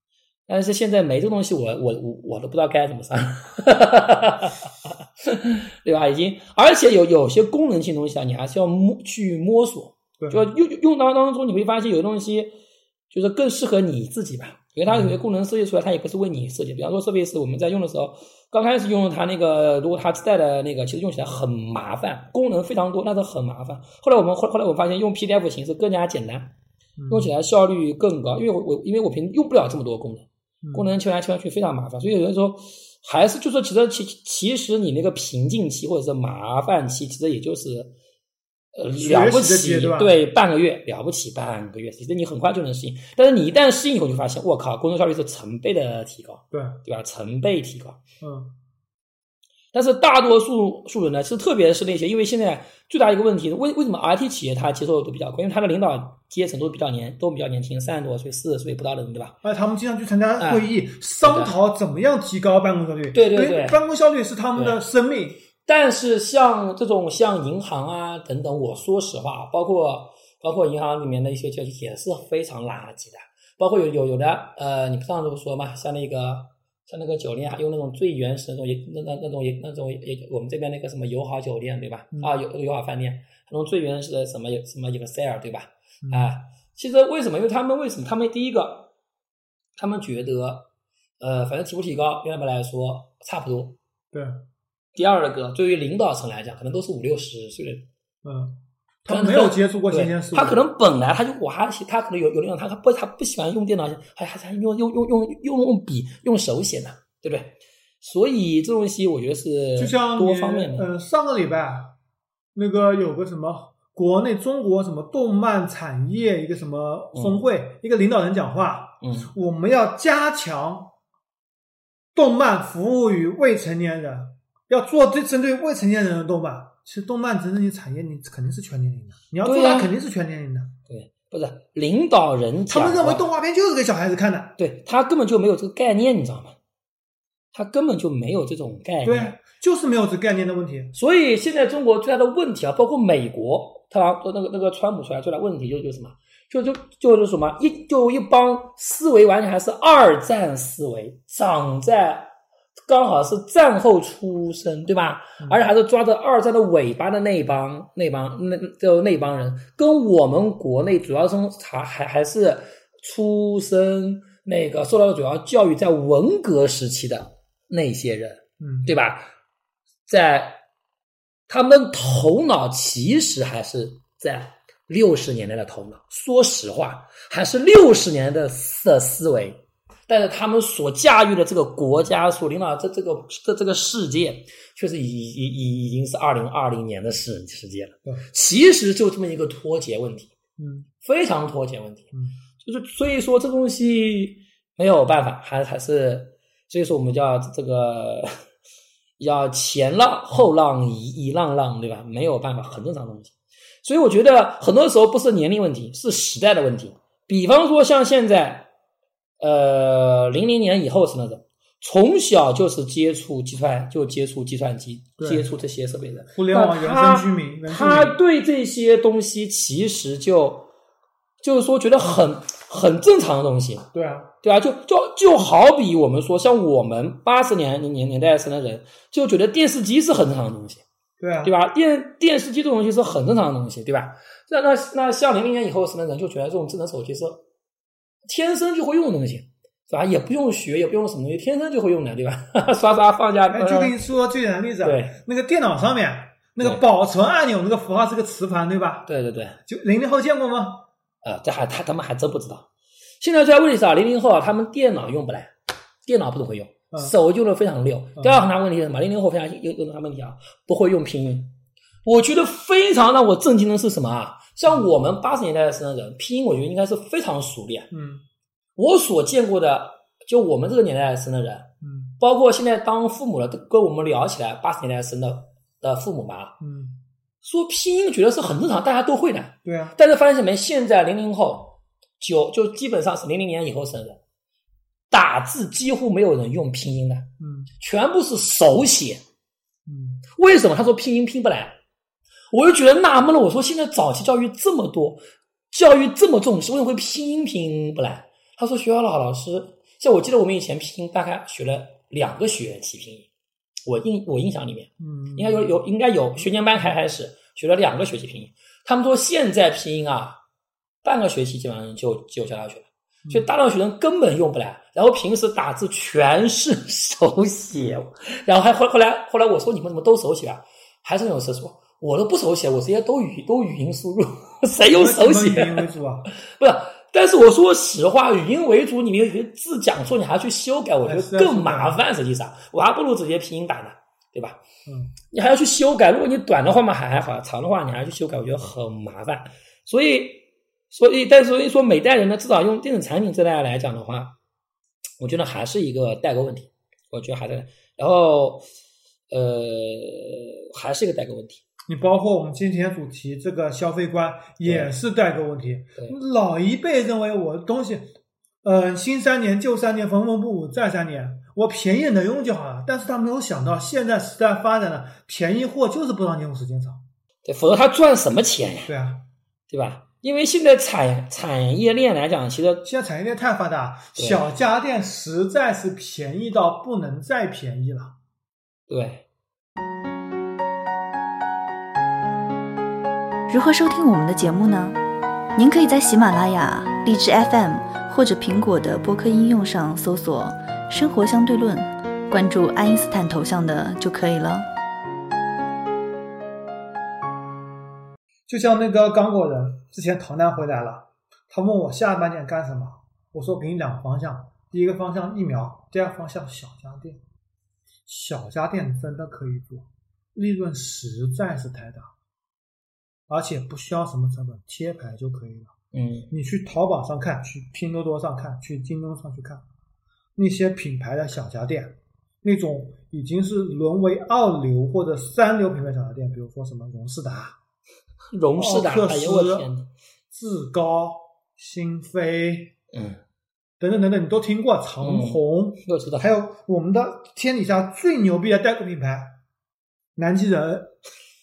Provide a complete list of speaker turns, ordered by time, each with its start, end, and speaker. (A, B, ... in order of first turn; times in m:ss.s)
0:00.5-0:12.5 A
0:10.2-0:10.5 B
0:13.1-0:26.5 A
0:14.9-0:15.1 B
0:27.0-0:27.3 B
0:27.1-0:37.9 A
0:30.6-0:30.9 B
0:38.8-0:48.0 A
0:38.9-0:40.2 B
0:46.5-0:46.8 B
0:48.2-0:48.5 B
0:49.7-0:59.4 A
0:59.4-1:05.4 B
1:00.4-1:00.7 A
1:01.2-1:01.5 A
1:03.1-1:03.8 A
1:04.5-1:04.8 A
1:05.6-1:28.9 A
1:26.0-1:26.3 B
1:29.8-1:30.7 A
1:31.2-1:33.8 A
1:34.1-1:34.4 B
1:34.9-1:37.9 A
1:38.2-1:40.6 B
1:39.1-1:50.9 A
1:49.8-1:52.0 B
1:52.5-2:00.9 B
1:57.1-1:57.4 A
1:59.0-1:59.3 A
2:02.1-2:10.8 B
2:09.4-2:09.9 A
2:10.9-2:13.3 A
2:12.7-2:14.6 B
2:14.6-2:16.6 A
2:17.5-2:19.4 A
2:19.0-2:20.9 B
2:20.9-2:32.3 A
2:32.9-2:49.2 A
2:48.6-2:48.9 B
2:50.1-2:50.6 A
2:51.5-3:10.3 A
3:10.6-3:10.9 B
3:11.0-3:18.3 A
3:19.2-3:28.7 A
3:29.4-3:40.7 A
3:35.2-3:35.5 B
3:36.3-3:38.2 B
3:41.4-3:43.9 A
3:43.9-3:44.3 B
3:44.4-3:50.8 A
3:51.2-3:51.5 B
3:51.4-3:57.4 A
3:58.3-4:03.9 A
4:03.5-4:09.1 B
4:04.8-4:05.2 A
4:09.1-4:09.6 A
4:09.6-4:10.9 B
4:11.2-4:12.7 A
4:13.2-4:15.5 A
4:16.0-4:21.5 A
4:22.0-4:27.9 A
4:27.9-4:28.2 B
4:28.8-4:36.6 A
4:31.8-4:32.1 B
4:36.6-4:37.0 B
4:37.4-4:44.2 A
4:39.6-4:40.0 B
4:45.1-4:49.2 A
4:47.4-4:47.7 B
4:49.8-4:50.2 B
4:50.3-4:51.8 A
4:52.5-5:03.3 A
5:03.8-5:10.4 A
5:05.0-5:05.8 B
5:11.0-5:34.6 A
5:24.9-5:26.3 B
5:31.0-5:32.0 B
5:34.9-5:35.1 B
5:35.3-5:44.4 A
5:45.2-5:48.6 A
5:49.3-5:51.6 A
5:51.9-5:58.1 B
5:54.6-5:54.9 A
5:58.6-6:07.0 B
6:07.4-6:08.9 A
6:08.9-6:09.2 B
6:09.7-6:12.8 A
6:12.8-6:18.2 B
6:14.2-6:14.4 A
6:18.9-6:19.2 A
6:23.5-6:25.0 C
6:25.6-6:34.7 C
6:38.5-6:47.2 B
6:48.0-6:52.1 B
6:53.3-6:55.7 B
6:55.9-6:56.3 A
6:56.3-6:59.6 B
7:00.4-7:07.6 B
7:08.3-7:09.9 A
7:08.5-7:09.7 B
7:10.3-7:12.7 B
7:12.9-7:13.2 A
7:13.8-7:19.4 B
7:15.0-7:16.3 A
7:20.2-7:21.0 B